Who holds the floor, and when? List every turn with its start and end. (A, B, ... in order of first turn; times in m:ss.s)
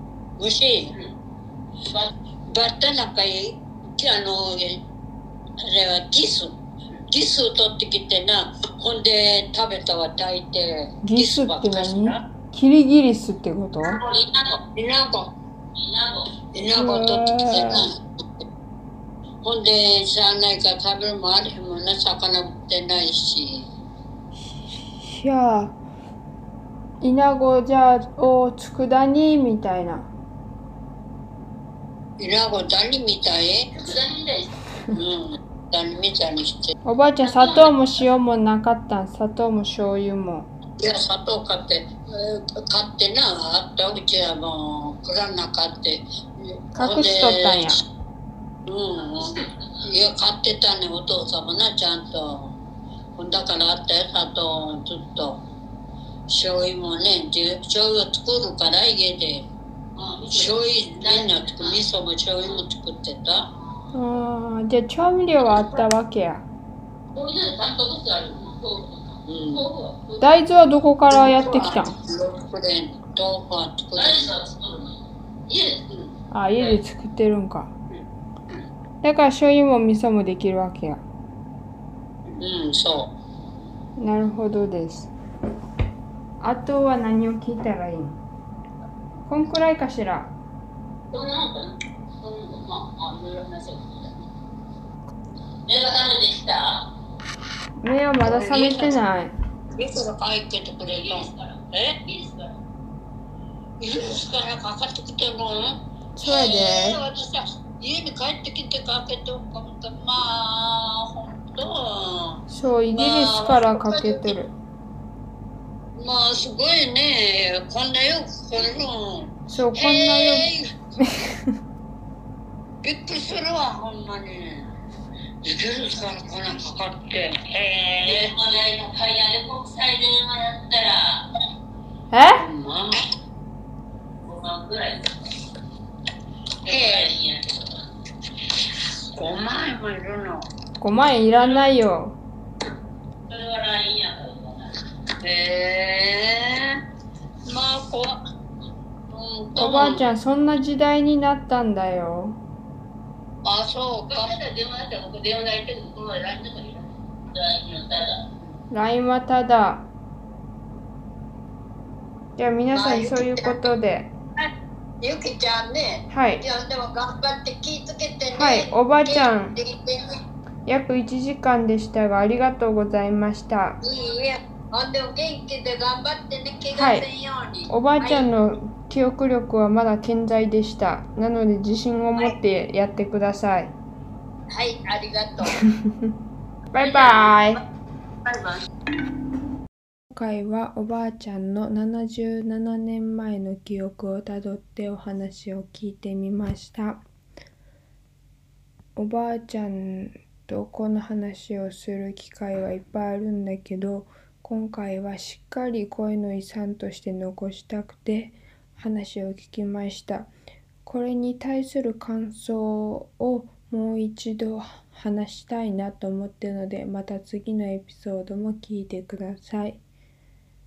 0:00.4-0:00.9 A
0:02.5-0:04.8 A
0:05.6-0:06.6 A
0:07.1-0:12.2 A
0:11.0-0:14.0 B
0:14.0-0:14.5 C
0:14.5-0:15.3 A
0:15.8-0:16.3 C
0:16.5-0:18.0 A
0:16.7-0:17.9 B
0:19.4-0:23.7 A
0:24.5-0:25.8 B
0:27.0-0:30.1 B
0:32.2-0:33.7 A
0:33.8-0:34.5 C
0:34.9-0:36.7 A
0:36.9-0:40.5 B
0:37.2-0:37.7 C
0:40.8-0:47.8 A
0:46.8-0:47.8 B
0:48.7-0:52.5 A
0:53.2-0:55.4 A
0:56.3-0:59.5 A
1:00.0-1:01.8 C
1:00.3-1:03.5 A
1:03.9-1:06.4 B
1:07.1-1:10.4 C
1:09.3-1:09.7 A
1:10.2-1:11.9 B
1:11.1-1:14.3 A
1:14.0-1:16.8 C
1:16.3-1:17.7 B
1:19.0-1:21.0 B
1:22.4-1:23.1 A
1:24.0-1:25.1 B
1:26.4-1:28.2 B
1:29.3-1:30.3 B
1:31.1-1:34.1 C
1:35.7-1:36.9 C
1:37.8-1:39.3 B
1:38.2-1:39.0 A
1:39.8-1:42.0 A
1:40.9-1:42.5 C
1:43.8-1:52.4 A
1:46.2-1:47.0 B
1:52.5-1:54.5 B
1:53.0-1:54.4 A
1:56.0-2:00.8 A
1:59.5-2:00.5 B
2:01.0-2:01.5 B
2:02.8-2:04.7 A
2:05.4-2:08.4 A
2:08.0-2:11.2 C
2:12.1-2:12.4 B
2:12.4-2:13.0 A
2:14.2-2:15.3 C
2:16.6-2:17.1 A
2:16.6-2:17.8 C
2:19.1-2:20.4 A
2:20.8-2:22.2 B
2:21.3-2:21.7 C
2:23.3-2:24.7 C
2:25.2-2:26.8 A
2:27.4-2:28.2 A
2:29.1-2:30.0 A
2:29.6-2:32.4 B
2:33.4-2:34.3 A
2:34.1-2:38.2 C
2:38.7-2:39.9 B
2:42.4-2:44.1 B
2:42.7-2:43.6 A
2:45.0-2:50.2 A
2:46.1-2:46.4 B
2:48.3-2:49.6 B
2:50.7-2:53.8 B
2:53.8-2:58.3 A
2:56.7-2:57.1 B
2:57.7-3:03.7 B
3:04.5-3:05.6 A
3:06.7-3:07.6 B
3:06.8-3:07.4 C
3:10.1-3:17.0 B
3:19.0-3:30.3 B
3:30.8-3:39.8 B